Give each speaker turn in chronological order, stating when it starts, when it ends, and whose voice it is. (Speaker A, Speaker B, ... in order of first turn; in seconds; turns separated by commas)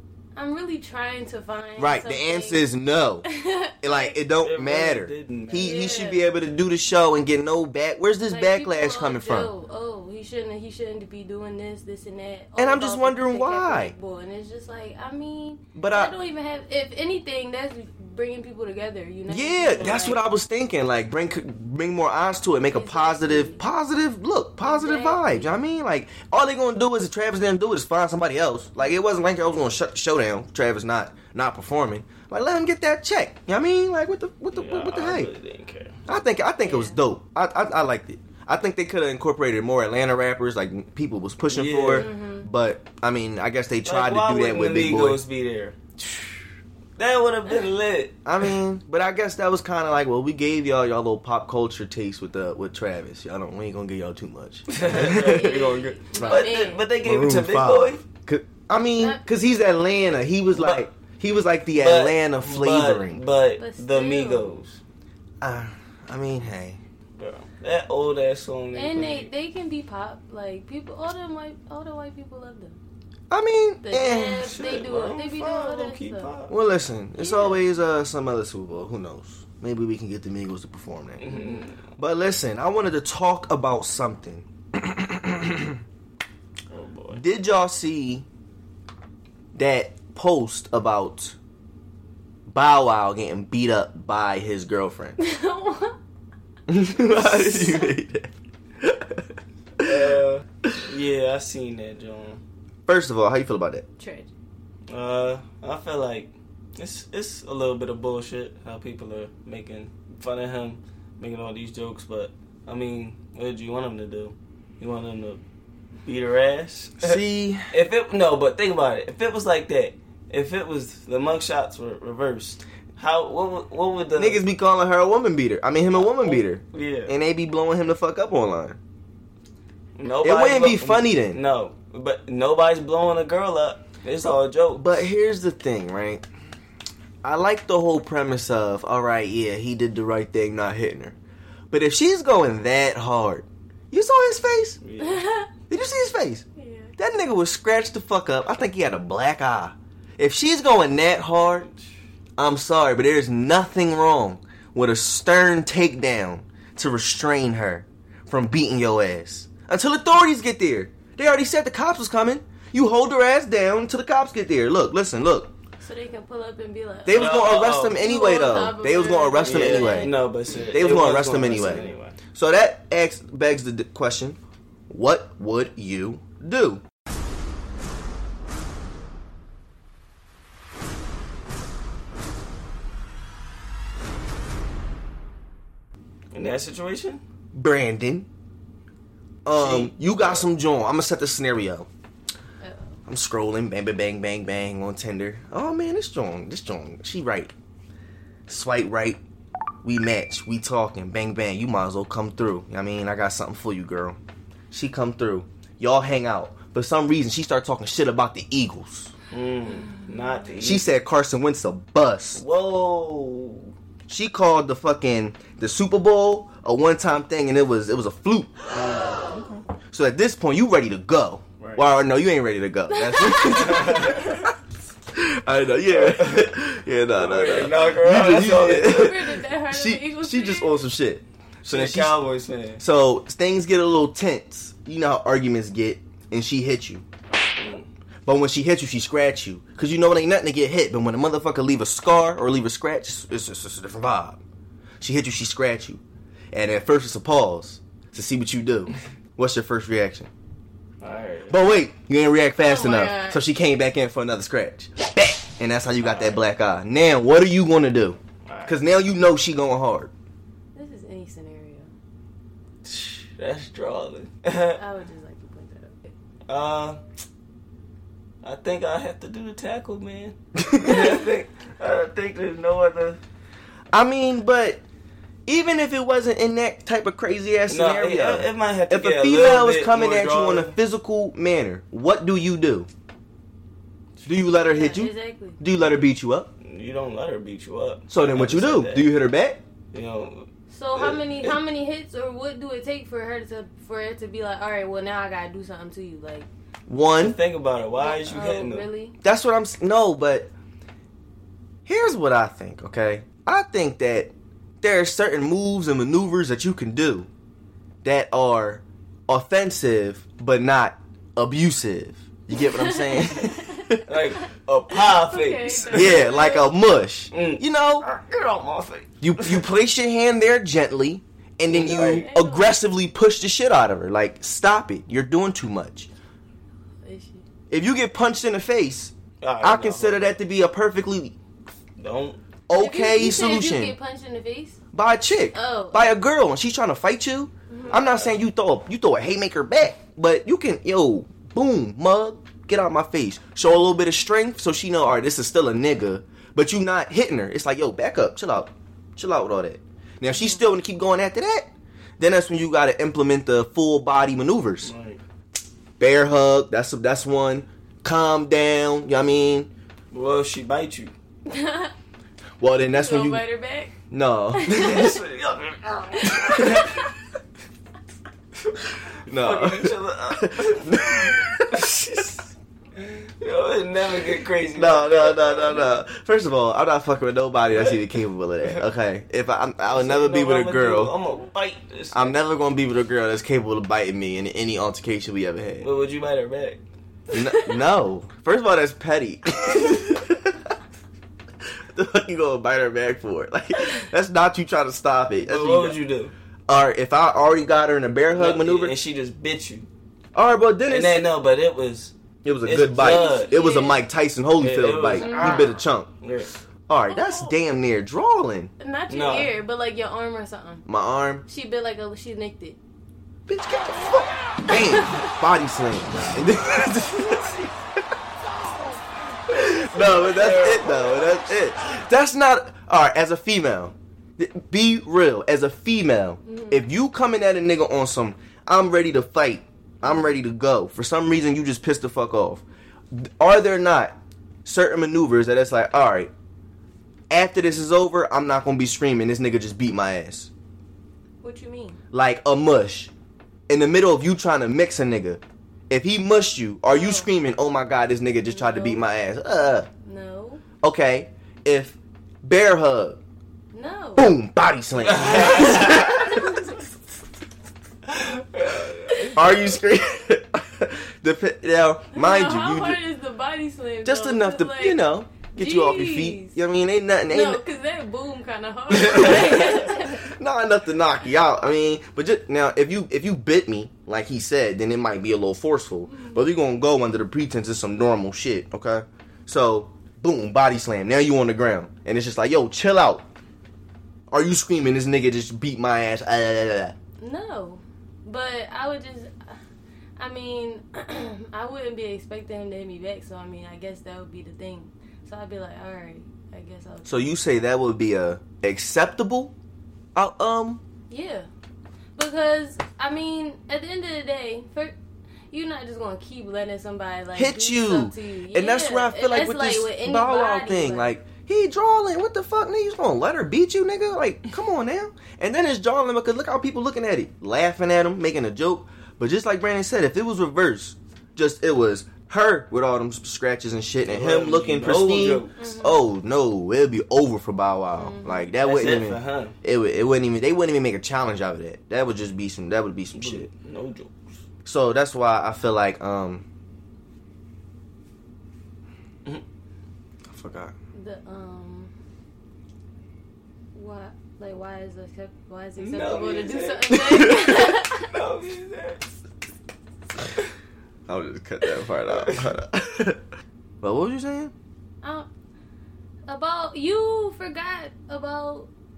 Speaker A: 0.3-2.6, Speaker B: 1.8-3.3, Speaker A: 3.2-4.1, Speaker B: 3.8-9.5, Speaker C: 4.4-5.8, Speaker A: 5.6-6.2, Speaker A: 8.3-20.2, Speaker B: 12.6-13.9, Speaker B: 15.7-16.1, Speaker B: 19.3-35.3, Speaker A: 22.7-23.6, Speaker A: 24.6-25.5, Speaker C: 34.5-36.0, Speaker B: 36.1-45.2, Speaker A: 36.6-37.0, Speaker C: 41.5-42.1, Speaker A: 41.9-42.5, Speaker C: 43.8-45.8, Speaker C: 47.0-48.5, Speaker B: 48.2-55.6, Speaker C: 54.7-58.0, Speaker A: 55.0-56.8, Speaker B: 56.1-56.5, Speaker B: 57.0-63.2, Speaker C: 60.5-60.8, Speaker C: 61.8-64.8, Speaker A: 63.6-64.5, Speaker B: 65.4-66.8, Speaker C: 67.2-69.3, Speaker A: 68.7-72.8, Speaker B: 73.3-74.5, Speaker A: 73.8-76.3, Speaker C: 74.4-76.5, Speaker B: 76.5-81.3, Speaker A: 77.2-77.6, Speaker C: 81.2-81.8, Speaker A: 81.3-81.7, Speaker B: 82.0-85.8, Speaker C: 86.7-87.2, Speaker B: 87.1-88.2, Speaker B: 89.5-91.3, Speaker B: 92.5-95.2, Speaker A: 95.2-96.0, Speaker B: 96.7-99.2, Speaker A: 96.9-97.9, Speaker B: 99.8-100.8, Speaker C: 99.8-102.4, Speaker B: 102.9-103.8, Speaker A: 104.0-104.3, Speaker C: 104.9-115.4, Speaker C: 116.0-124.4, Speaker B: 117.0-117.7, Speaker B: 124.2-128.8, Speaker C: 125.9-127.1, Speaker C: 129.9-135.1, Speaker B: 130.2-131.4, Speaker B: 134.8-136.2, Speaker B: 137.2-141.2, Speaker B: 141.7-144.8, Speaker C: 144.8-145.2, Speaker A: 145.0-145.5, Speaker B: 145.7-146.4, Speaker A: 146.6-146.9, Speaker B: 147.0-151.7, Speaker B: 152.4-165.5, Speaker A: 165.8-170.1, Speaker B: 167.0-170.1, Speaker C: 167.1-168.1, Speaker C: 169.4-172.2, Speaker B: 170.7-174.4, Speaker B: 174.9-176.8, Speaker C: 186.3-187.2, Speaker B: 187.5-188.3, Speaker B: 189.4-191.9, Speaker C: 189.6-190.4, Speaker B: 193.1-197.5, Speaker B: 198.5-199.2, Speaker B: 199.8-204.2, Speaker B: 204.7-209.1, Speaker C: 209.3-210.9, Speaker B: 210.6-212.4, Speaker C: 212.3-213.7, Speaker B: 214.1-218.7, Speaker C: 218.7-219.7, Speaker B: 219.9-224.5, Speaker C: 221.6-221.9, Speaker A: 222.9-224.0, Speaker C: 223.4-224.5, Speaker B: 225.1-232.2, Speaker C: 225.8-226.5, Speaker C: 227.1-229.2, Speaker A: 228.7-230.8, Speaker C: 231.7-232.8, Speaker B: 232.8-237.0, Speaker C: 237.3-237.9, Speaker B: 238.2-244.4, Speaker B: 245.0-246.0, Speaker B: 246.5-250.3, Speaker C: 251.0-251.5, Speaker B: 251.5-260.1, Speaker A: 252.6-253.4, Speaker C: 256.0-256.4, Speaker C: 258.4-258.8, Speaker A: 260.7-261.9, Speaker C: 262.8-264.8, Speaker A: 264.7-266.1, Speaker C: 266.5-267.0, Speaker C: 268.4-273.2, Speaker B: 270.6-271.2, Speaker B: 273.9-274.8, Speaker B: 275.4-282.9, Speaker C: 277.7-280.8, Speaker B: 284.2-286.5, Speaker A: 284.6-285.6, Speaker C: 286.6-289.1, Speaker B: 288.1-289.6, Speaker C: 289.9-291.6, Speaker A: 290.7-296.5, Speaker B: 296.9-297.4, Speaker C: 297.1-298.9, Speaker A: 298.0-299.1, Speaker B: 299.2-300.5, Speaker B: 301.9-307.3, Speaker B: 308.0-314.1, Speaker A: 312.6-316.7, Speaker C: 314.1-316.3, Speaker B: 315.9-318.1, Speaker C: 317.3-319.7, Speaker B: 319.2-326.1, Speaker C: 321.7-322.3, Speaker A: 321.7-322.8, Speaker A: 327.0-327.4, Speaker B: 327.7-331.4, Speaker C: 329.4-330.3, Speaker C: 332.0-332.4, Speaker B: 332.7-333.9, Speaker A: 332.7-334.8, Speaker B: 334.9-354.9, Speaker A: 335.5-336.1, Speaker A: 337.7-338.0, Speaker C: 337.9-338.4, Speaker A: 350.3-350.6, Speaker C: 354.8-355.2, Speaker B: 356.0-359.7, Speaker C: 360.1-361.1, Speaker A: 361.4-361.9, Speaker B: 362.6-363.4, Speaker A: 362.9-363.9, Speaker B: 364.1-365.2, Speaker A: 364.5-365.2, Speaker C: 364.8-367.0, Speaker A: 366.1-367.1, Speaker B: 366.5-366.9, Speaker B: 369.2-371.9, Speaker C: 369.2-375.9, Speaker B: 374.8-381.1, Speaker C: 377.7-378.0, Speaker C: 379.8-382.4, Speaker B: 382.1-385.9, Speaker C: 385.8-386.8, Speaker B: 387.3-390.7, Speaker B: 391.9-396.0, Speaker C: 395.4-396.3, Speaker B: 396.7-398.9, Speaker C: 398.3-399.9, Speaker B: 400.3-401.3, Speaker C: 400.9-403.6, Speaker B: 402.4-406.1, Speaker A: 402.9-404.0, Speaker C: 404.6-406.5, Speaker A: 405.1-405.8, Speaker B: 406.9-408.7, Speaker A: 407.1-407.6, Speaker A: 408.8-410.9, Speaker C: 409.1-409.5, Speaker B: 410.9-411.4, Speaker A: 411.5-412.8, Speaker B: 413.5-417.7, Speaker A: 414.7-415.3, Speaker C: 417.3-417.6, Speaker B: 419.5-436.3, Speaker C: 419.6-421.9, Speaker A: 426.4-426.9, Speaker A: 430.0-430.3, Speaker B: 437.3-440.5, Speaker A: 441.4-442.0, Speaker B: 442.1-443.1, Speaker B: 443.7-449.9, Speaker A: 446.9-447.3, Speaker A: 448.4-449.0, Speaker A: 450.0-450.6, Speaker B: 450.8-453.2, Speaker A: 453.7-454.3, Speaker B: 454.2-456.6, Speaker C: 455.0-456.4, Speaker A: 455.6-456.8, Speaker C: 458.0-459.7, Speaker B: 459.3-463.0, Speaker A: 462.1-466.6, Speaker B: 464.0-467.6, Speaker A: 467.3-470.3, Speaker B: 468.9-483.2, Speaker A: 476.1-476.4, Speaker B: 484.3-486.9, Speaker A: 487.2-489.6, Speaker A: 490.2-497.3, Speaker B: 497.0-499.5, Speaker B: 500.1-500.8, Speaker A: 501.1-501.5, Speaker A: 502.1-504.9, Speaker A: 505.5-511.1, Speaker B: 507.3-533.5, Speaker C: 524.0-525.6, Speaker A: 525.6-526.0, Speaker A: 528.0-528.5, Speaker C: 528.6-529.5, Speaker C: 533.1-534.3, Speaker B: 534.6-536.4, Speaker B: 540.3-540.7, Speaker A: 540.9-541.9, Speaker A: 543.7-548.1, Speaker C: 545.8-549.1, Speaker B: 547.0-547.3, Speaker B: 551.1-553.2, Speaker C: 552.0-552.5, Speaker B: 553.8-554.5, Speaker A: 555.0-555.3, Speaker A: 556.3-558.7